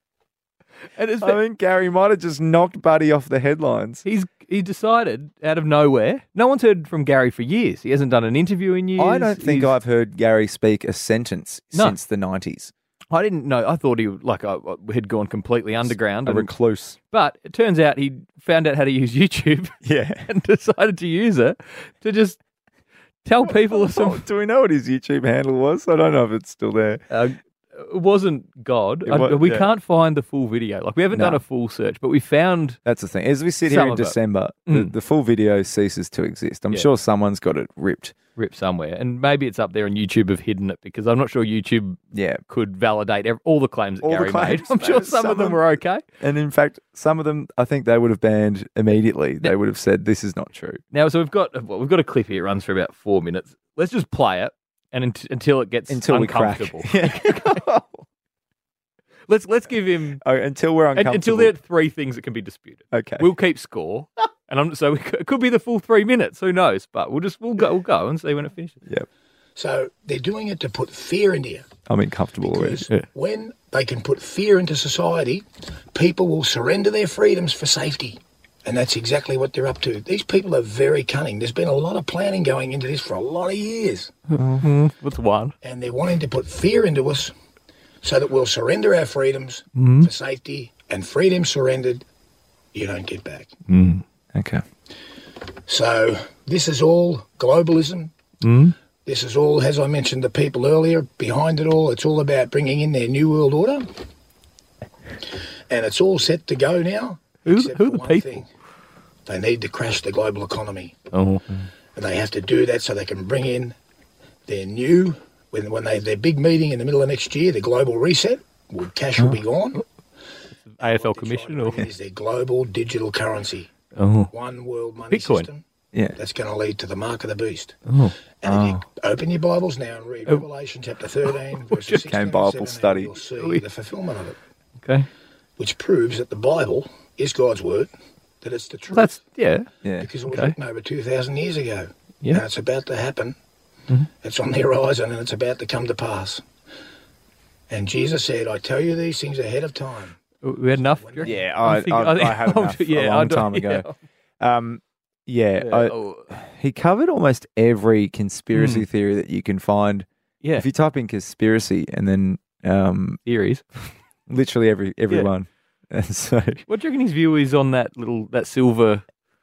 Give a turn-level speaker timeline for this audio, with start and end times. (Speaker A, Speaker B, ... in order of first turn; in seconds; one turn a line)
Speaker A: 0.9-1.4
Speaker B: 1.2-4.0
Speaker A: 4.0-9.7
Speaker B: 9.0-12.7
Speaker A: 13.1-16.5
Speaker B: 15.9-17.0
Speaker A: 17.1-22.4
Speaker B: 19.8-20.3
Speaker A: 23.2-24.2
Speaker B: 23.4-27.0
Speaker A: 27.1-32.8
Speaker B: 29.0-29.7
Speaker B: 31.1-31.4
Speaker B: 32.8-38.1
Speaker A: 33.6-34.1
Speaker A: 34.7-34.9
Speaker A: 38.4-46.0
Speaker B: 42.1-42.4
Speaker B: 44.0-45.6
Speaker B: 46.2-50.8
Speaker A: 50.9-57.6
Speaker B: 55.9-58.0
Speaker A: 59.3-60.2
Speaker B: 60.2-61.5
Speaker A: 60.9-68.8
Speaker B: 62.9-63.3
Speaker C: 69.5-71.7
Speaker B: 71.9-72.9
Speaker C: 72.4-84.1
Speaker B: 84.3-84.7
Speaker A: 84.5-85.5
Speaker C: 85.6-87.3
Speaker C: 88.0-92.0
Speaker A: 89.7-90.1
Speaker C: 92.7-93.5
Speaker A: 93.7-94.0
Speaker B: 94.3-94.6
Speaker C: 95.7-98.1
Speaker A: 98.4-98.7
Speaker C: 99.0-103.9
Speaker C: 105.7-108.5
Speaker A: 107.4-108.4
Speaker C: 109.2-111.0
Speaker A: 111.1-111.5
Speaker C: 111.9-113.8
Speaker C: 114.5-119.8
Speaker A: 120.6-121.9
Speaker C: 120.8-123.7
Speaker A: 124.0-124.3
Speaker C: 124.3-125.6
Speaker A: 125.1-125.5
Speaker C: 126.2-127.8
Speaker A: 127.9-128.1
Speaker C: 128.4-134.4
Speaker B: 128.4-128.8
Speaker A: 131.6-132.1
Speaker B: 132.0-133.1
Speaker A: 133.4-133.6
Speaker C: 135.6-137.9
Speaker C: 138.4-139.2
Speaker A: 138.9-139.7
Speaker B: 139.8-140.1
Speaker C: 140.0-143.3
Speaker A: 140.3-140.5
Speaker C: 144.2-146.4
Speaker C: 147.7-150.2
Speaker A: 150.4-153.9
Speaker C: 150.9-151.4
Speaker B: 151.2-153.9
Speaker B: 154.4-163.2
Speaker A: 155.6-156.3
Speaker A: 158.5-158.8
Speaker A: 163.2-163.6
Speaker B: 164.3-166.6
Speaker A: 166.7-169.0